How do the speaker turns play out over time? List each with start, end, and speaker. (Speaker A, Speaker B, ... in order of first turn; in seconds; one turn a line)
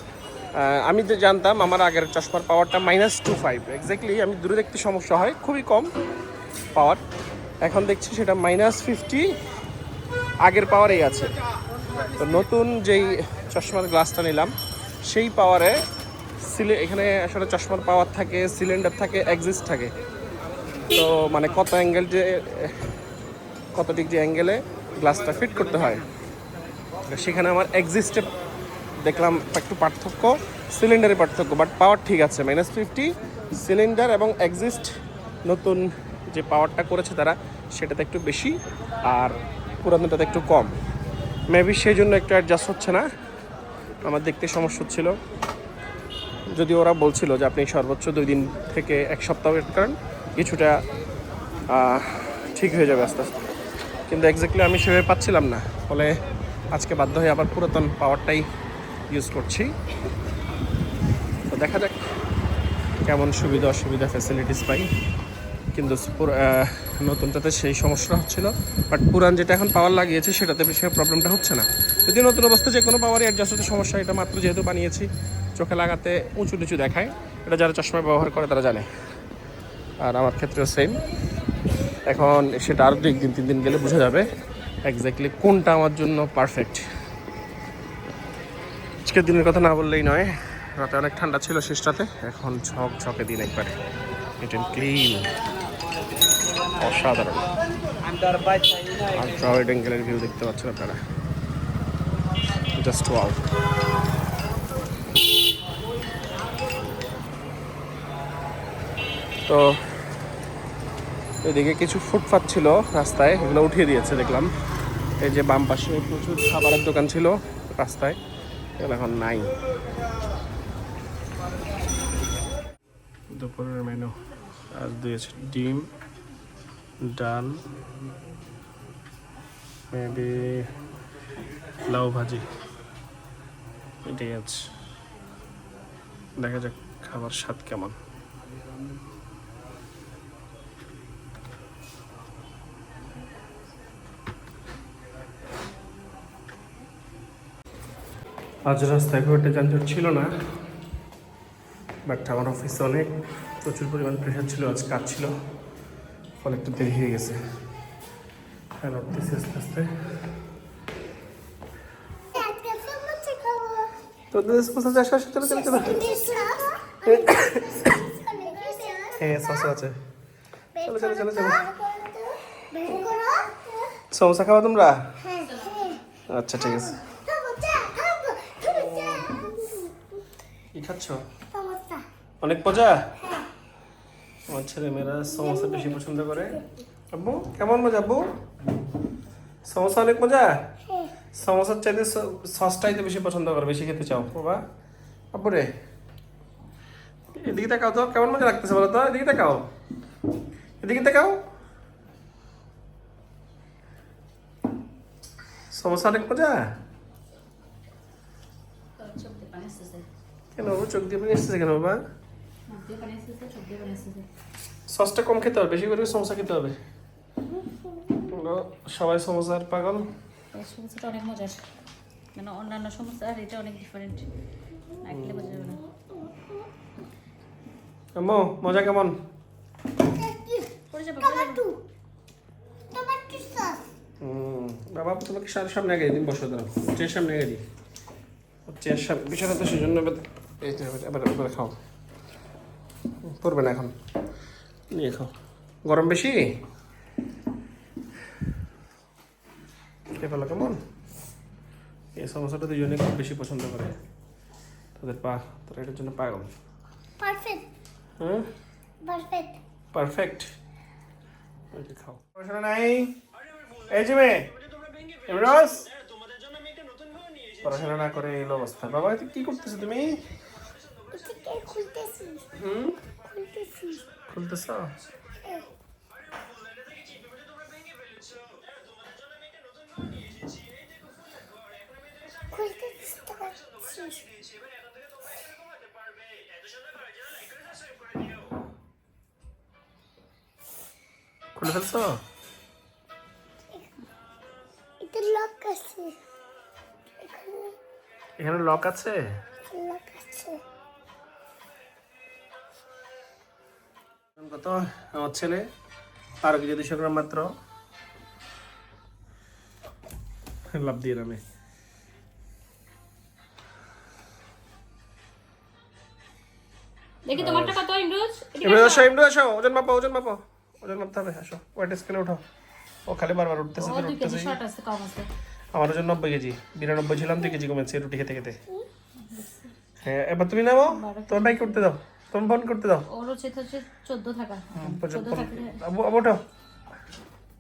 Speaker A: 0.6-5.9
Speaker A: 6.7-7.0
Speaker A: 7.6-9.3
Speaker A: 10.4-11.3
Speaker A: 12.2-14.5
Speaker A: 15.1-15.8
Speaker A: 16.4-19.9
Speaker A: 20.9-22.9
Speaker A: 23.8-26.1
Speaker A: 27.1-28.3
Speaker A: 29.0-34.9
Speaker A: 35.5-40.8
Speaker A: 41.5-43.1
Speaker A: 44.0-45.2
Speaker A: 46.5-50.8
Speaker A: 51.7-53.4
Speaker A: 54.1-56.1
Speaker A: 56.7-58.5
Speaker A: 59.1-59.7
Speaker A: 61.5-62.0
Speaker A: 63.0-64.9
Speaker A: 65.7-78.9
Speaker A: 80.0-81.0
Speaker A: 82.1-84.3
Speaker A: 84.9-86.8
Speaker A: 89.1-93.8
Speaker A: 94.4-95.3
Speaker A: 96.8-97.4
Speaker A: 99.1-101.0
Speaker A: 102.8-103.4
Speaker A: 109.5-110.0
Speaker A: 111.5-114.5
Speaker A: 115.2-118.2
Speaker A: 118.8-119.5
Speaker A: 123.3-124.1
Speaker A: 124.7-125.9
Speaker A: 127.0-127.6
Speaker A: 129.9-130.7
Speaker A: 131.8-132.4
Speaker A: 134.1-134.6
Speaker A: 136.4-138.0
Speaker A: 148.7-150.3
Speaker A: 152.1-155.3
Speaker A: 156.4-157.4
Speaker A: 158.8-160.3
Speaker B: 162.3-163.9
Speaker A: 164.3-166.0
Speaker B: 165.4-169.4
Speaker A: 167.1-167.9
Speaker A: 169.1-169.9
Speaker B: 170.8-173.9
Speaker A: 170.8-171.6
Speaker A: 174.1-175.0
Speaker B: 175.2-176.0
Speaker C: 175.5-175.9
Speaker A: 176.3-177.0
Speaker B: 176.6-180.1
Speaker A: 178.7-179.3
Speaker A: 180.8-181.2
Speaker B: 181.5-182.0
Speaker A: 182.4-183.1
Speaker A: 184.5-186.6
Speaker B: 185.3-186.0
Speaker A: 187.1-188.2
Speaker A: 189.6-190.6
Speaker A: 191.3-194.6
Speaker A: 195.3-195.7
Speaker A: 197.3-199.7
Speaker A: 200.8-201.4
Speaker A: 205.7-206.6
Speaker C: 209.0-210.1
Speaker A: 210.6-212.0
Speaker C: 212.7-214.3
Speaker A: 214.9-216.8
Speaker A: 218.3-220.1
Speaker C: 220.5-221.6
Speaker C: 222.3-224.3
Speaker C: 225.0-225.8
Speaker A: 225.1-225.7
Speaker A: 228.2-229.2
Speaker B: 230.1-231.8
Speaker C: 230.9-231.6
Speaker B: 232.9-233.8
Speaker A: 234.2-237.6
Speaker A: 238.7-241.8
Speaker A: 243.2-243.9
Speaker A: 244.9-245.3
Speaker A: 245.8-246.5
Speaker A: 250.2-250.8
Speaker A: 252.2-254.0
Speaker A: 255.0-256.5
Speaker B: 257.2-257.6
Speaker A: 258.2-258.5
Speaker B: 259.0-259.6
Speaker A: 259.9-260.5
Speaker A: 261.7-263.2
Speaker A: 263.9-264.5
Speaker A: 265.3-265.9
Speaker A: 267.6-270.2
Speaker B: 271.1-272.4
Speaker A: 272.5-273.0
Speaker B: 273.3-274.1
Speaker A: 274.3-274.9
Speaker B: 282.5-284.3
Speaker A: 291.6-292.2
Speaker B: 295.0-296.1
Speaker B: 297.2-297.7
Speaker A: 298.4-299.2
Speaker B: 299.7-300.6
Speaker A: 304.4-305.7
Speaker A: 306.4-307.5
Speaker A: 310.7-311.4
Speaker C: 317.2-319.1
Speaker A: 317.4-317.8
Speaker A: 318.6-322.4
Speaker A: 323.1-324.6
Speaker C: 323.8-325.3
Speaker A: 325.8-328.6
Speaker C: 329.2-329.7
Speaker A: 330.0-333.1
Speaker C: 330.9-331.9
Speaker C: 333.1-335.8
Speaker A: 334.8-336.4